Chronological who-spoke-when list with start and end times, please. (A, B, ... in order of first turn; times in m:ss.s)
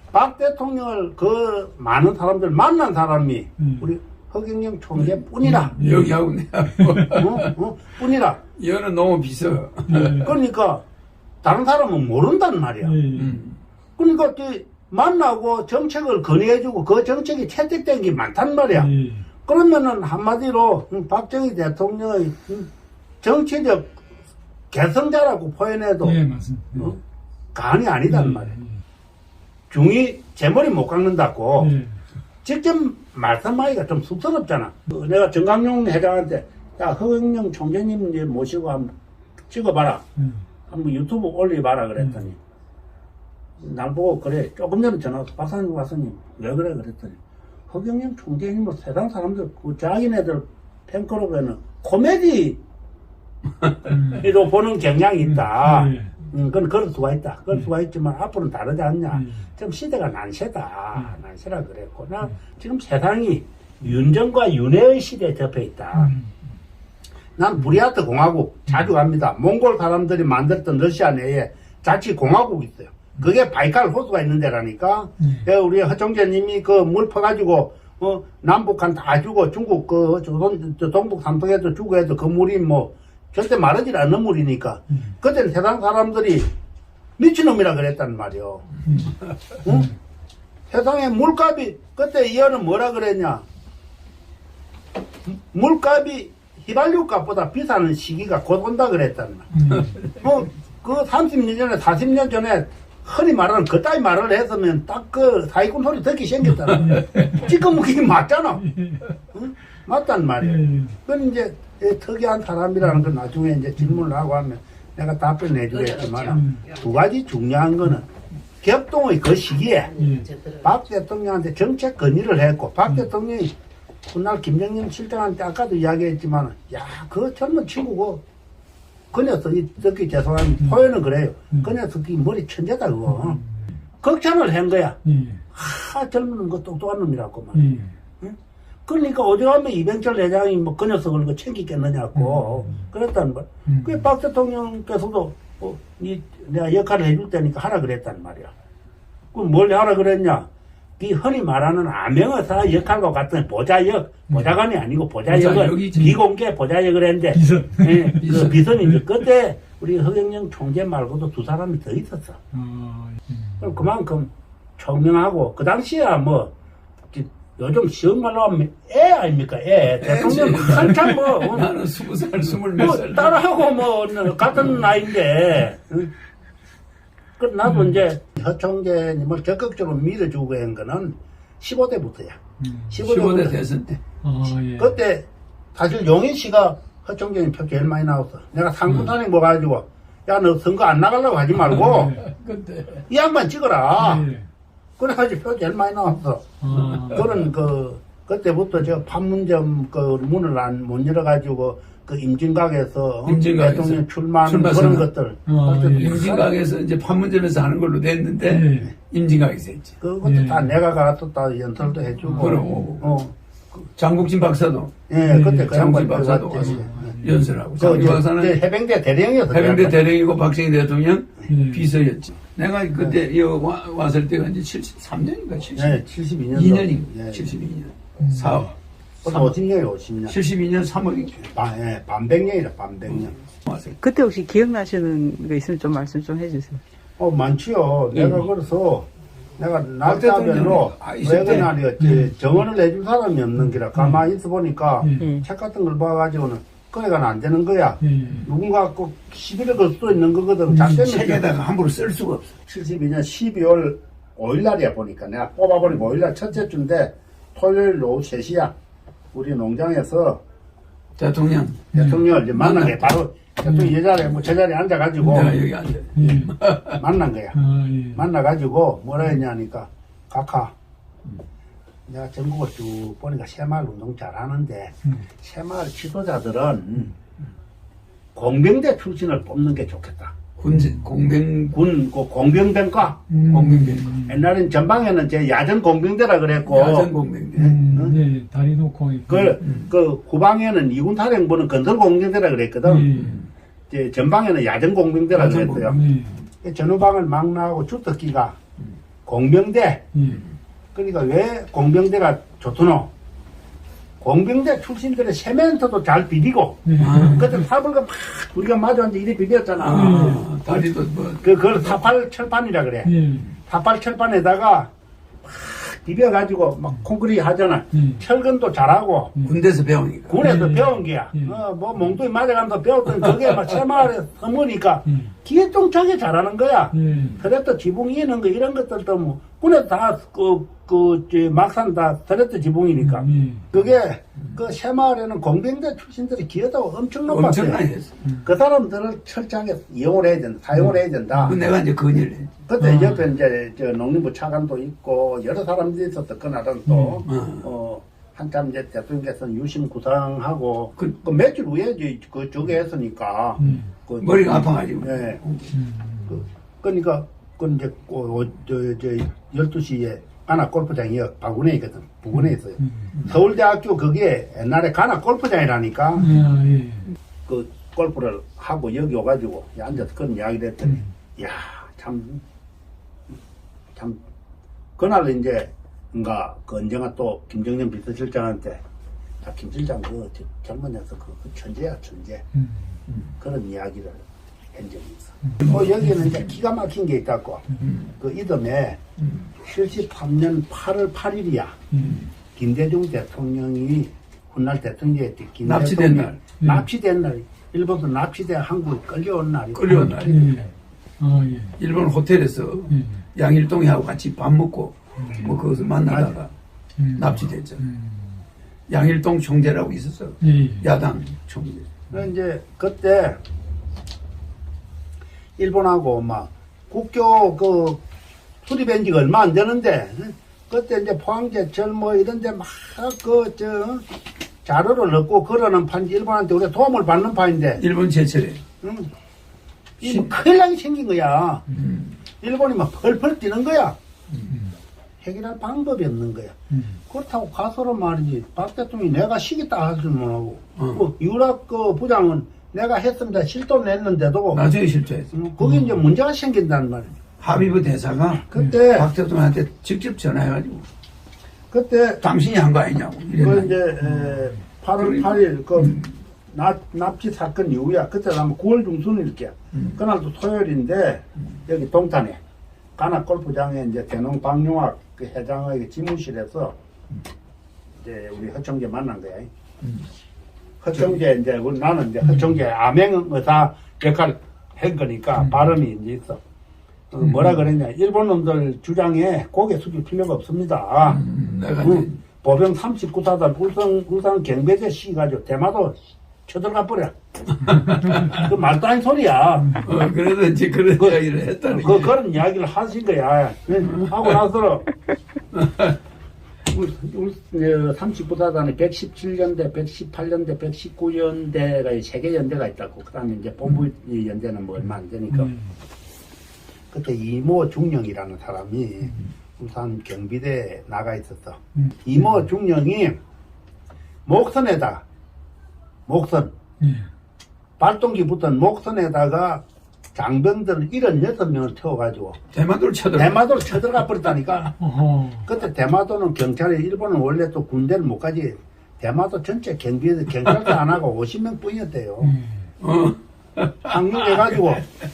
0:00.1-0:05.8 A
0:05.4-0:06.2 B
0:05.8-0:07.5 C
0:06.8-0:07.2 B
0:07.1-0:08.4 A
0:08.6-0:10.3 C
0:09.9-0:10.3 B
0:10.2-0:10.8 A
0:11.4-0:13.0 A
0:12.8-0:13.3 B
0:13.2-0:13.6 C
0:14.0-0:18.9 A
0:18.7-0:19.2 B
0:19.4-0:22.7 A
0:23.2-0:24.0 A
0:24.7-0:26.2 A
0:26.0-0:27.0 B
0:26.8-0:27.0 A
0:27.5-0:28.6 A
0:28.1-0:28.8 B
0:29.7-0:31.7 A
0:31.6-0:32.0 B
0:32.4-0:38.9 A
0:39.5-0:40.0 A
0:40.7-0:42.4 A
0:43.6-0:52.6 A
0:53.6-0:53.9 C
0:53.9-0:54.2 B
0:54.0-1:06.1 A
0:55.4-0:56.1 B
1:06.0-1:06.3 B
1:07.4-1:26.5 A
1:27.2-1:28.7 A
1:29.6-1:29.9 A
1:30.7-1:33.4 A
1:35.3-1:39.6 A
1:39.5-1:39.9 B
1:40.2-1:48.7 A
1:46.7-1:47.4 B
1:48.6-1:49.0 B
1:49.3-1:58.1 A
1:50.4-1:50.9 B
1:56.3-1:56.7 B
1:58.6-2:03.5 A
2:00.0-2:00.3 B
2:04.1-2:08.2 A
2:09.1-2:13.4 A
2:14.0-2:15.0 A
2:15.0-2:15.4 B
2:15.5-2:18.4 A
2:17.6-2:17.9 B
2:18.9-2:28.5 A
2:22.2-2:22.6 B
2:29.3-2:42.4 A
2:35.3-2:36.2 C
2:37.4-2:39.0 B
2:38.2-2:38.7 C
2:42.5-2:43.6 B
2:43.6-2:46.5 A
2:47.1-2:51.7 A
2:50.0-2:53.6 C
2:52.7-2:56.1 A
2:57.4-3:02.4 A
3:02.6-3:03.0 B
3:02.9-3:04.0 A
3:03.0-3:03.9 C
3:04.2-3:05.0 B
3:04.8-3:12.2 A
3:11.9-3:12.2 B
3:12.2-3:13.0 C
3:13.1-3:14.3 A
3:14.0-3:14.4 B
3:15.0-3:26.5 A
3:16.6-3:17.2 B
3:23.2-3:25.1 C
3:25.5-3:26.2 B
3:26.0-3:30.0 C
3:28.5-3:28.9 B
3:30.0-3:33.8 A
3:30.2-3:30.7 B
3:32.3-3:32.6 B
3:32.4-3:33.0 C
3:34.0-3:34.9 C
3:35.1-3:37.2 A
3:35.3-3:35.7 B
3:35.6-3:38.6 C
3:36.6-3:37.4 B
3:37.8-3:40.0 A
3:39.5-3:46.0 C
3:41.5-3:41.9 B
3:45.8-3:47.5 A
3:46.5-3:48.7 C
3:48.2-3:48.7 B
3:49.2-3:49.6 C
3:49.2-3:50.4 A
3:50.3-3:51.4 C
3:51.5-3:53.4 A
3:53.7-3:54.0 C
3:53.9-3:56.8 D
3:57.2-4:11.4 A
4:00.0-4:01.7 C
4:02.0-4:02.3 B
4:05.2-4:05.4 D
4:08.0-4:08.4 B
4:10.8-4:12.5 C
4:12.7-4:18.7 A
4:19.3-4:20.4 A
4:21.2-4:21.9 C
4:21.9-4:25.6 A
4:22.0-4:22.2 B
4:22.5-4:23.2 C
4:25.2-4:27.0 C
4:26.2-4:26.5 B
4:26.9-4:27.6 A
4:27.5-4:28.2 B
4:28.2-4:30.7 A
4:32.1-4:37.1 A
4:38.4-4:40.3 A
4:40.6-4:41.8 C
4:41.7-4:43.2 A
4:43.3-4:44.4 B
4:43.5-4:44.1 C
4:44.3-4:48.2 A
4:46.7-4:47.8 C
4:47.6-4:49.6 B
4:49.3-4:53.1 A
4:52.8-4:53.4 B
4:53.1-4:53.5 C
4:53.9-4:56.0 A
4:55.3-4:56.0 C
4:55.9-4:56.3 B
4:56.6-4:58.6 A
4:59.3-5:00.0 A
5:00.2-5:00.4 B
5:01.0-5:03.1 A
5:04.2-5:10.8 A
5:06.9-5:07.4 B
5:07.0-5:07.5 C
5:09.8-5:11.6 C
5:09.9-5:10.4 B
5:11.4-5:13.1 A
5:13.0-5:13.5 B
5:13.7-5:14.9 A
5:15.4-5:19.3 A
5:17.9-5:18.2 B
5:19.4-5:20.4 C
5:20.3-5:37.8 A
5:20.4-5:21.5 B
5:26.9-5:27.4 B
5:33.0-5:33.7 B
5:37.3-5:38.1 C
5:38.4-5:41.7 A
5:41.4-5:42.5 C
5:42.7-5:55.4 A
5:42.8-5:43.2 B
5:46.9-5:47.2 B
5:47.3-5:47.7 C
5:53.6-5:53.9 B
5:54.2-5:55.8 C
5:55.7-5:56.3 B
5:56.3-6:06.4 A
6:06.2-6:07.1 B
6:07.5-6:12.4 A
6:15.0-6:18.8 A
6:19.4-6:22.4 A
6:23.4-6:24.2 A
6:24.7-6:27.6 A
6:25.6-6:25.9 C
6:27.8-6:28.1 C
6:28.2-6:29.0 A
6:29.2-6:29.4 C
6:29.6-6:31.8 A
6:31.9-6:32.2 B
6:32.0-6:32.3 C
6:32.6-6:40.6 A
6:35.6-6:36.4 C
6:39.7-6:40.6 C
6:39.9-6:41.8 B
6:41.8-6:46.5 C
6:42.9-6:43.2 B
6:46.1-6:46.3 A
6:47.0-6:48.3 B
6:47.2-6:47.8 C
6:48.9-6:51.9 C
6:50.4-6:50.8 B
6:52.1-6:53.4 A
6:55.6-6:58.0 A
6:58.6-7:04.0 A
7:04.6-7:07.8 A
7:07.8-7:08.6 C
7:08.8-7:09.1 A
7:10.0-7:11.6 A
7:10.0-7:10.3 C
7:11.7-7:12.2 C
7:12.4-7:14.0 A
7:15.2-7:16.6 A
7:17.1-7:24.6 A
7:24.5-7:25.3 C
7:25.3-7:27.2 A
7:27.4-7:30.9 C
7:28.5-7:29.1 A
7:31.7-7:32.2 A
7:32.2-7:33.8 C
7:33.4-7:42.4 A
7:35.0-7:36.0 C
7:43.0-7:46.8 A
7:48.0-7:49.5 A
7:50.8-7:56.4 A
7:57.1-8:01.2 A
7:57.2-7:57.5 C
8:01.0-8:02.2 C
8:01.8-8:06.0 A
8:06.5-8:09.8 A
8:07.7-8:08.4 C
8:09.8-8:12.2 C
8:11.7-8:14.9 A
8:15.5-8:16.0 C
8:16.7-8:25.5 A
8:25.3-8:25.6 B
8:26.9-8:33.2 A
8:34.3-8:35.0 A
8:36.1-8:36.5 A
8:36.8-8:37.1 B
8:37.8-8:39.6 A
8:40.2-8:42.4 A
8:42.5-8:43.6 C
8:43.2-8:44.8 A
8:44.8-8:45.5 B
8:45.5-8:52.4 A
8:52.2-8:52.6 B
8:52.8-8:54.6 C
8:53.8-8:54.8 A